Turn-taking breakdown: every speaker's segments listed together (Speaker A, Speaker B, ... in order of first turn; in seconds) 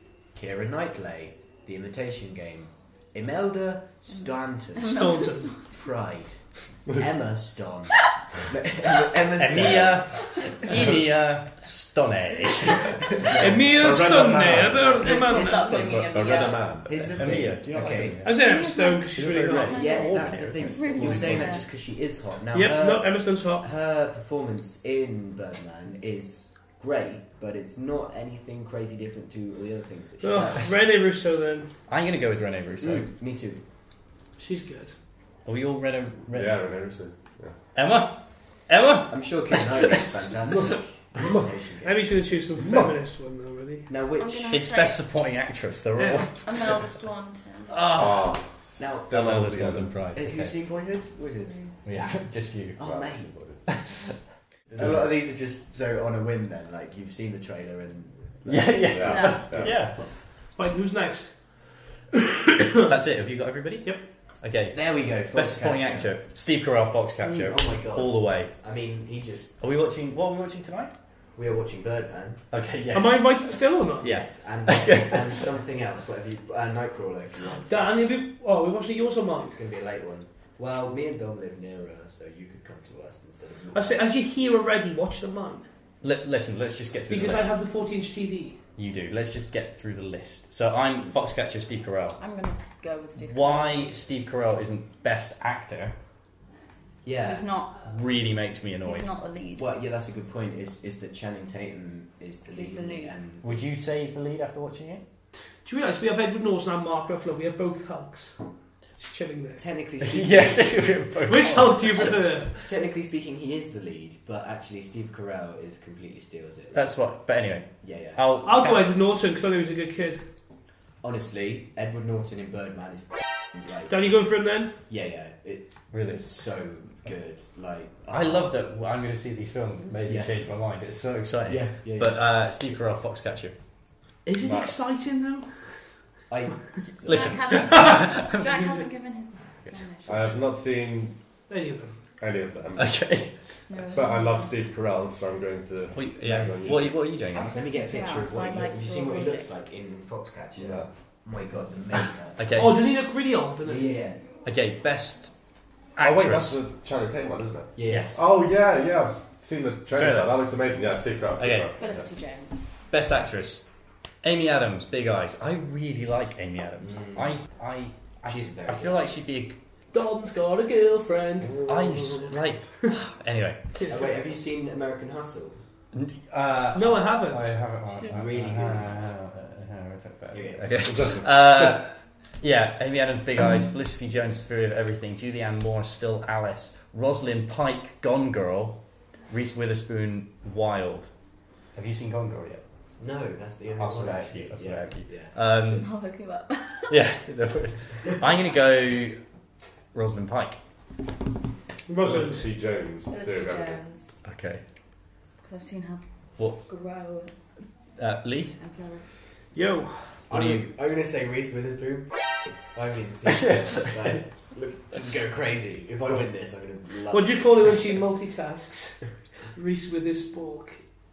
Speaker A: 0.3-5.1, 5.7-10.9, 13.2-18.2, 19.7-30.7, 32.8-33.6, 39.1-42.1, 43.9-44.6, 48.8-49.4, 50.1-51.6, 52.8-53.3, 54.7-59.0, 64.7-66.2, 67.2-69.6, 71.4-72.4, 74.0-77.9, 79.4-84.0, 97.0-97.5, 99.6-103.7, 109.6-110.8, 111.8-116.9, 117.8-118.2, 121.0-124.3, 124.9-128.5, 130.1-130.3, 131.5-132.2, 136.3-137.5, 146.2-152.6, 153.6-154.2, 157.8-158.2, 166.8-167.3, 168.3-169.2, 171.4-172.4, 173.9-175.6, 178.1-179.0, 180.3-181.2, 193.0-195.3, 210.3-217.7
Speaker B: 4.2-5.8, 14.8-16.8, 18.3-21.7, 44.2-45.0, 46.4-47.9, 51.3-51.7, 59.0-59.5, 92.2-93.9, 97.2-97.8, 98.8-99.7, 102.5-103.2, 137.0-140.4, 143.7-144.5, 147.3-149.5, 161.8-162.6, 195.6-197.0, 203.1-204.1, 205.4-206.0, 206.6-207.3, 208.6-209.1
Speaker C: 4.8-5.5, 13.3-15.6, 18.2-19.8, 22.5-23.7, 30.2-31.7, 34.4-34.9, 41.8-43.9, 46.0-46.3, 47.8-48.1, 60.5-62.9, 72.9-74.1, 77.6-79.6, 83.7-85.7, 87.1-88.6, 105.7-108.4, 109.0-109.6, 111.3-112.5, 118.4-120.2, 123.9-124.7, 134.2-135.8, 137.8-138.1, 141.5-142.0, 152.6-154.0, 169.9-171.6, 176.7-177.5, 201.9-202.5, 209.5-210.2, 217.1-220.8
Speaker D: 9.4-13.2, 17.0-18.4, 19.1-21.6, 31.9-33.1, 35.5-36.6, 37.8-40.7, 44.5-46.3, 47.8-48.3, 49.1-50.5, 51.9-52.8, 53.7-54.2, 58.5-60.1, 62.8-68.5, 69.6-70.9, 72.5-73.4, 74.0-75.5, 86.0-87.5, 88.8-92.2, 93.2-96.0, 97.8-99.1, 103.4-105.0, 110.0-112.1, 116.7-118.9, 125.9-126.3, 128.1-133.6, 134.4-134.7, 137.1-138.6, 142.8-143.3, 145.9-147.6, 152.4-152.8, 154.4-155.3, 156.0-156.6, 157.9-158.2, 159.9-160.4, 161.4-161.7, 162.9-163.6, 164.2-169.6, 171.7-173.7, 175.9-188.8, 189.3-191.1, 191.8-192.6, 193.8-195.9, 196.9-199.2, 199.9-200.6, 204.2-204.6, 208.0-208.6, 210.3-210.6, 213.3-214.2
Speaker E: 13.3-17.4, 36.3-37.6, 42.6-42.9, 47.9-49.9, 52.8-53.6, 54.8-55.1, 58.9-59.8, 140.1-141.2, 142.2-143.0, 143.8-147.0, 150.6-150.9, 156.0-162.1, 180.8-181.7, 202.0-203.8